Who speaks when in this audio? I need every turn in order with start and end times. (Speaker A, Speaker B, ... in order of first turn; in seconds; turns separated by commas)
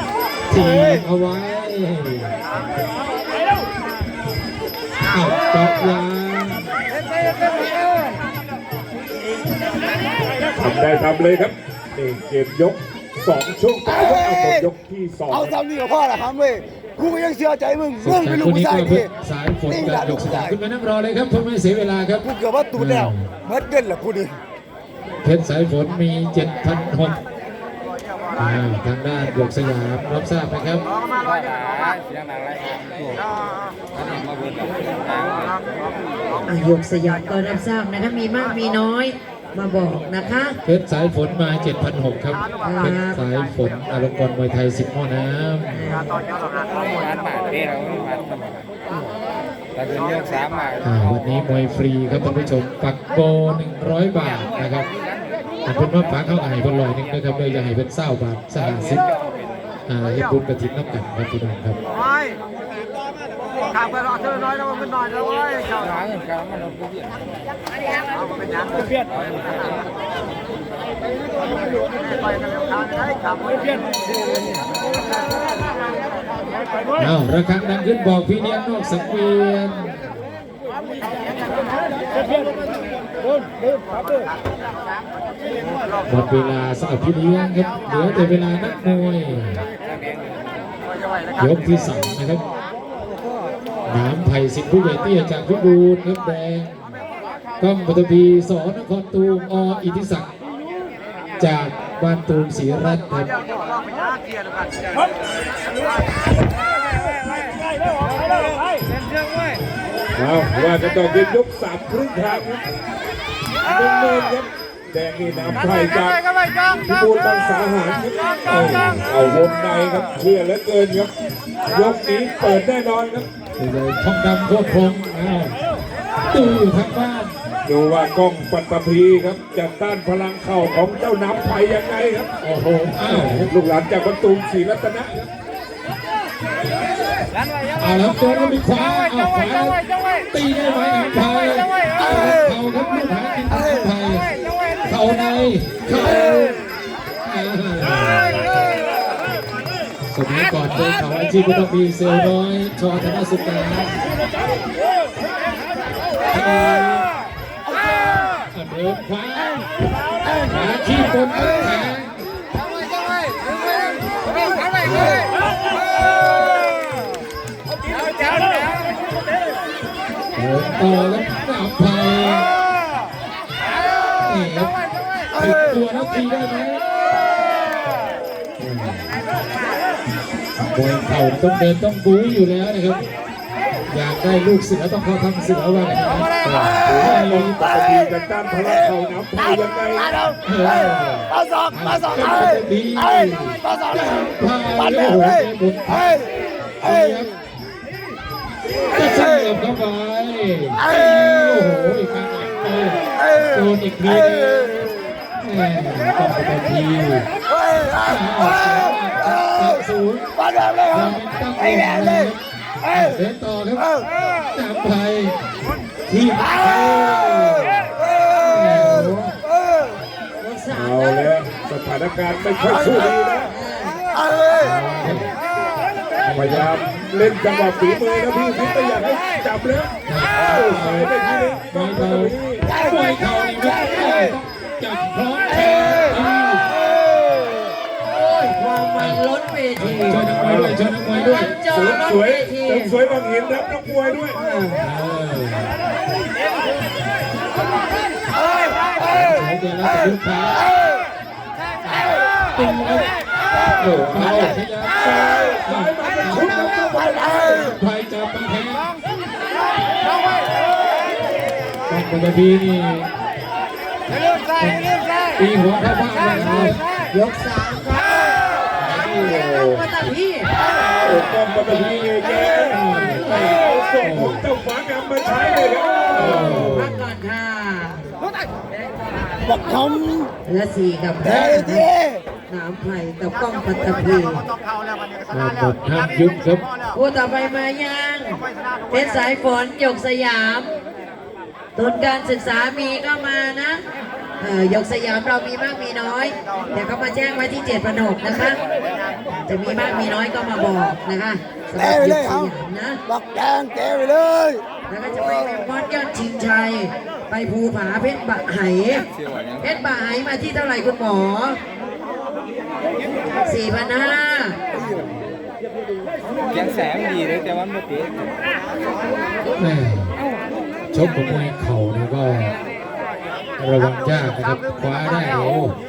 Speaker A: 0.5-2.3, Speaker A: 5.1-6.7, Speaker B: 10.6-15.6, Speaker C: 13.9-14.7, Speaker C: 15.3-19.1, Speaker A: 18.0-23.3, Speaker C: 19.7-20.6, Speaker C: 22.3-24.4, Speaker A: 25.2-27.2, Speaker A: 28.4-30.9, Speaker D: 31.3-33.2, Speaker D: 34.4-35.5, Speaker E: 36.5-40.6, Speaker A: 40.6-46.1, Speaker E: 42.6-43.2, Speaker E: 45.7-47.1, Speaker D: 47.2-48.3, Speaker D: 49.9-50.6, Speaker A: 50.8-54.9, Speaker A: 55.6-59.1, Speaker A: 59.9-61.8, Speaker A: 77.0-80.2, Speaker A: 86.1-89.6, Speaker A: 91.4-92.4, Speaker A: 93.9-96.8, Speaker A: 97.6-100.3, Speaker A: 101.4-103.4, Speaker B: 110.2-112.6, Speaker B: 113.6-116.2, Speaker B: 116.8-121.1, Speaker B: 121.7-123.3, Speaker A: 123.6-125.6, Speaker A: 126.3-127.4, Speaker B: 127.7-132.3, Speaker A: 132.4-133.5, Speaker B: 133.0-135.3, Speaker A: 137.8-146.7, Speaker C: 142.0-142.5, Speaker A: 147.2-148.6, Speaker A: 150.1-154.0, Speaker A: 156.2-157.1, Speaker A: 158.5-159.6, Speaker A: 160.4-162.2, Speaker A: 164.8-165.3, Speaker A: 170.4-172.5, Speaker A: 174.1-174.7, Speaker A: 175.3-176.9, Speaker A: 178.6-179.2, Speaker A: 180.7-183.1, Speaker A: 183.9-187.7, Speaker C: 186.6-187.0, Speaker B: 186.7-190.2, Speaker C: 187.6-188.1, Speaker C: 188.7-195.5, Speaker A: 190.4-196.1, Speaker A: 196.8-197.3, Speaker A: 198.9-204.8, Speaker C: 203.2-203.5, Speaker A: 205.4-207.3, Speaker C: 207.5-208.2, Speaker A: 208.0-210.3, Speaker C: 210.4-212.3, Speaker A: 210.9-213.9, Speaker C: 212.9-213.2, Speaker A: 214.5-215.4, Speaker A: 216.1-219.2, Speaker E: 218.4-219.4, Speaker C: 219.5-220.0, Speaker E: 220.4-221.3, Speaker B: 220.7-223.5, Speaker E: 223.5-224.0, Speaker C: 224.1-224.7, Speaker A: 224.6-225.3, Speaker A: 226.2-226.8, Speaker B: 226.3-232.8, Speaker A: 230.1-231.1, Speaker A: 231.6-236.7, Speaker C: 233.7-234.4, Speaker C: 236.9-237.6, Speaker E: 238.1-240.2, Speaker A: 239.8-241.6, Speaker B: 240.2-240.8, Speaker E: 241.1-242.9, Speaker B: 241.6-244.4, Speaker E: 244.3-244.8, Speaker A: 244.8-245.7, Speaker A: 249.0-250.7, Speaker A: 251.9-253.1, Speaker A: 253.8-258.9, Speaker B: 253.8-257.7, Speaker A: 261.9-263.1, Speaker A: 264.6-266.8, Speaker E: 266.4-268.3, Speaker A: 268.8-269.5, Speaker E: 269.2-270.5, Speaker B: 269.6-269.8, Speaker B: 271.0-276.8, Speaker A: 271.4-274.5, Speaker A: 276.1-277.1, Speaker E: 276.2-278.1, Speaker C: 279.4-280.3, Speaker E: 280.4-281.9, Speaker C: 281.3-282.2, Speaker E: 282.5-284.4, Speaker A: 285.3-286.6, Speaker E: 286.9-290.7, Speaker E: 291.8-293.8, Speaker E: 294.4-298.7, Speaker E: 299.3-303.0, Speaker C: 301.8-302.5, Speaker C: 303.1-304.6, Speaker E: 304.9-309.1, Speaker E: 309.6-311.6, Speaker E: 313.4-314.6, Speaker D: 316.6-318.1, Speaker A: 319.6-320.2, Speaker A: 320.9-322.6, Speaker A: 323.6-325.8